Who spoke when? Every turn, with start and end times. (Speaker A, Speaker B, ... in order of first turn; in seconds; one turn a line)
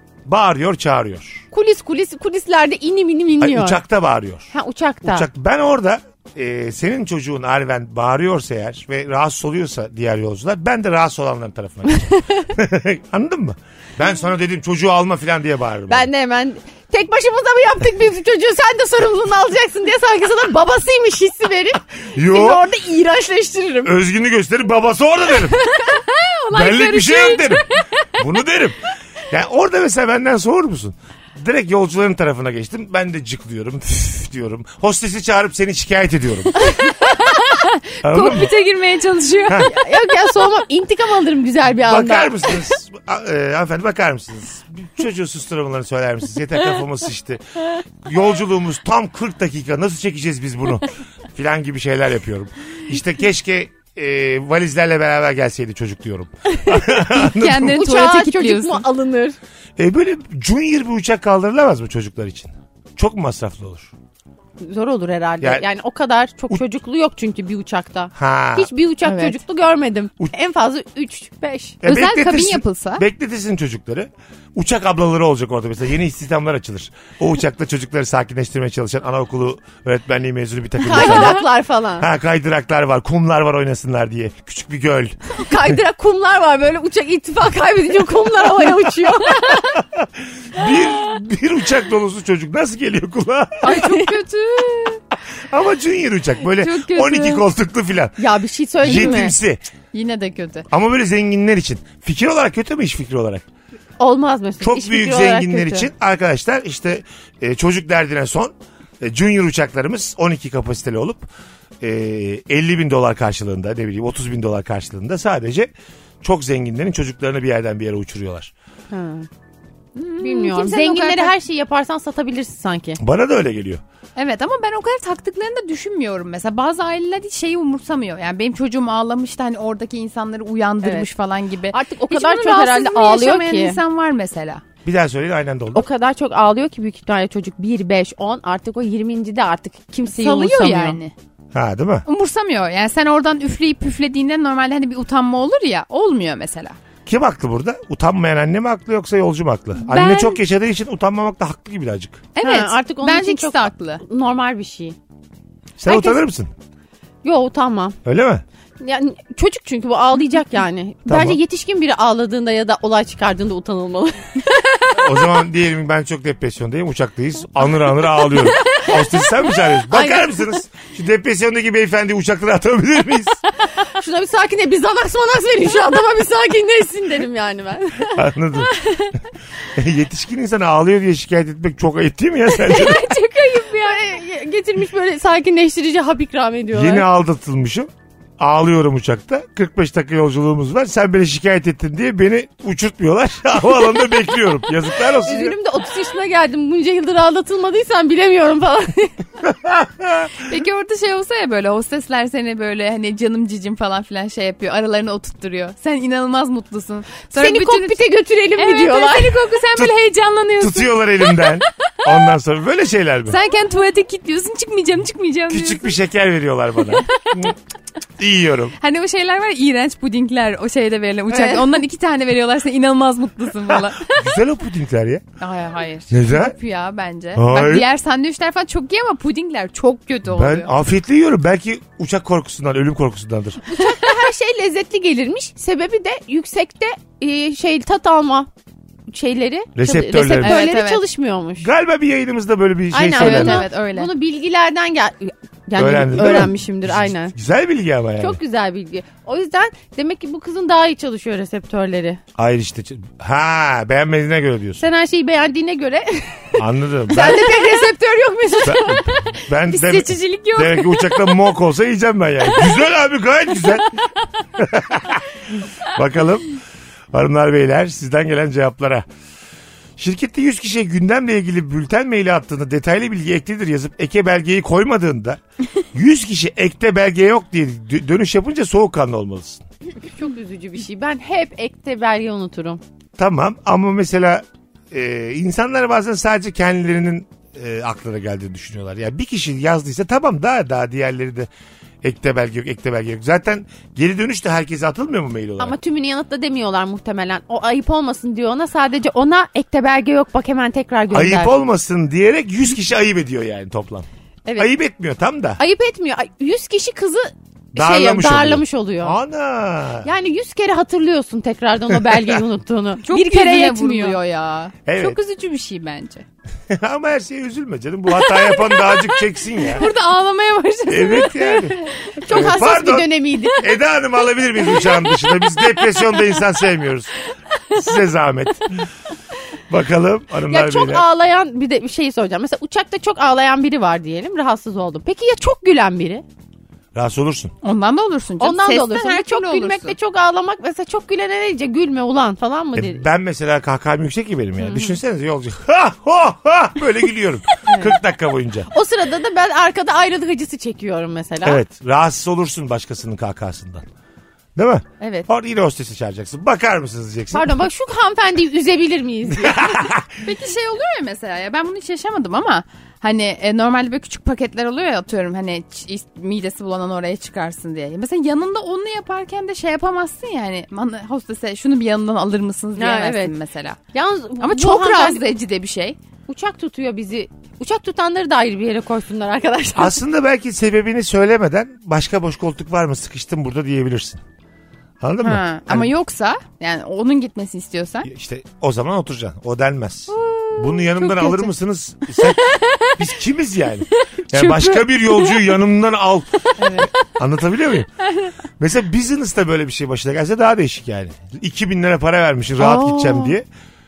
Speaker A: 0.3-1.4
Speaker B: 1.5-3.8
Speaker A: 3.4-4.5
Speaker B: 4.5-5.3
Speaker A: 5.0-16.1
Speaker B: 15.9-23.9
Speaker A: 22.1-22.7
Speaker A: 23.8-25.6
Speaker B: 25.6-27.6
Speaker A: 26.5-36.5
Speaker C: 26.7-27.5
Speaker C: 36.8-39.7
Speaker A: 38.0-38.5
Speaker B: 39.6-42.6
Speaker A: 41.8-57.8
Speaker B: 56.5-56.9
Speaker C: 57.1-58.8
Speaker B: 57.6-59.4
Speaker A: 59.8-63.9
Speaker B: 64.6-71.8
Speaker A: 68.2-68.7
Speaker C: 69.0-69.4
Speaker A: 71.8-81.5
Speaker C: 71.8-73.0
Speaker B: 80.8-82.1
Speaker C: 81.0-81.3
Speaker A: 82.0-85.8
Speaker B: 85.3-89.7
Speaker A: 89.8-93.8
Speaker C: 93.6-95.0
Speaker B: 93.6-94.1
Speaker A: 95.5-98.2
Speaker C: 96.5-97.5
Speaker B: 98.2-99.3
Speaker A: 98.8-99.6
Speaker C: 98.8-99.3
Speaker C: 99.9-100.7
Speaker A: 100.7-103.4
Speaker B: 104.0-105.9
Speaker A: 104.6-111.3
Speaker A: 111.8-115.7
Speaker A: 116.2-118.5
Speaker B: 118.9-119.3
Speaker C: 120.0-121.3
Speaker B: 120.2-123.0
Speaker A: 123.0-123.8
Speaker C: 124.2-134.6
Speaker B: 130.8-131.1
Speaker B: 131.7-133.8
Speaker A: 134.8-135.9
Speaker B: 135.8-141.0
Speaker C: 140.1-141.1
Speaker A: 141.5-142.1
Speaker C: 142.1-146.8
Speaker A: 147.1-152.3
Speaker C: 149.8-150.4
Speaker C: 152.4-154.0
Speaker B: 152.4-155.0
Speaker A: 155.8-156.5
Speaker C: 155.9-156.2
Speaker B: 157.2-158.0
Speaker A: 158.1-158.4
Speaker B: 158.8-164.6
Speaker A: 161.1-161.4
Speaker A: 164.9-173.4
Speaker B: 168.7-169.3
Speaker B: 169.9-170.5
Speaker B: 173.8-178.2
Speaker A: 178.1-178.7
Speaker A: 179.7-183.1
Speaker B: 182.6-187.1
Speaker C: 182.8-183.9
Speaker A: 186.7-195.6
Speaker B: 195.2-199.2
Speaker A: 199.5-200.3
Speaker C: 200.4-208.0
Speaker B: 207.4-209.5
Speaker C: 208.6-211.6
Speaker A: 210.6-213.4
Speaker C: 213.3-216.0
Speaker A: 215.5-217.6
Speaker C: 217.0-217.5
Speaker A: 218.2-218.7
Speaker C: 218.8-224.2
Speaker A: 224.1-225.2
Speaker C: 225.4-230.7
Speaker A: 226.1-226.6
Speaker A: 227.4-227.9
Speaker A: 230.3-233.7
Speaker B: 233.7-238.5
Speaker C: 233.8-234.1
Speaker B: 239.1-241.7
Speaker A: 239.8-240.6
Speaker C: 240.4-241.0
Speaker A: 241.6-243.7
Speaker B: 242.9-247.3
Speaker C: 243.1-244.1
Speaker A: 245.8-248.4
Speaker B: 248.2-252.2
Speaker A: 252.4-254.8
Speaker B: 254.8-259.1
Speaker A: 256.6-257.5
Speaker C: 257.5-257.9
Speaker A: 258.6-263.9
Speaker C: 259.7-261.5
Speaker C: 263.6-263.9
Speaker A: 264.6-265.2
Speaker A: 265.9-266.5
Speaker A: 267.1-269.1
Speaker A: 270.0-275.4
Speaker A: 275.9-279.6
Speaker B: 280.0-282.8
Speaker A: 283.2-291.5
Speaker A: 292.0-295.8
Speaker B: 295.6-301.5
Speaker A: 301.1-304.1
Speaker A: 304.6-305.6
Speaker B: 305.6-309.2
Speaker A: 307.8-310.1
Speaker B: 310.0-314.2
Speaker A: 312.1-312.4
Speaker C: 313.0-316.2
Speaker A: 314.9-315.2
Speaker A: 316.7-319.9
Speaker C: 318.2-322.6
Speaker A: 320.9-327.1
Speaker B: 322.1-323.6
Speaker C: 323.4-323.7
Speaker C: 324.7-325.8
Speaker A: 327.7-328.8
Speaker A: 329.7-331.1
Speaker B: 330.5-336.2
Speaker A: 336.9-337.5
Speaker C: 337.6-339.9
Speaker B: 338.4-343.1
Speaker A: 342.8-348.7
Speaker C: 347.7-347.9
Speaker B: 348.7-351.6
Speaker A: 351.4-353.9
Speaker A: 354.6-357.7
Speaker C: 355.0-355.3
Speaker B: 357.3-359.7
Speaker A: 359.4-360.1
Speaker C: 360.2-373.8
Speaker B: 372.8-373.4
Speaker B: 373.9-375.3
Speaker C: 374.4-376.0
Speaker B: 376.3-380.0
Speaker A: 379.8-384.2
Speaker A: 385.0-385.9
Speaker C: 385.2-388.1
Speaker A: 388.1-392.4
Speaker C: 390.1-391.5
Speaker A: 393.0-397.9
Speaker B: 394.4-394.8
Speaker B: 396.6-396.9
Speaker A: 398.6-403.4
Speaker B: 402.6-403.4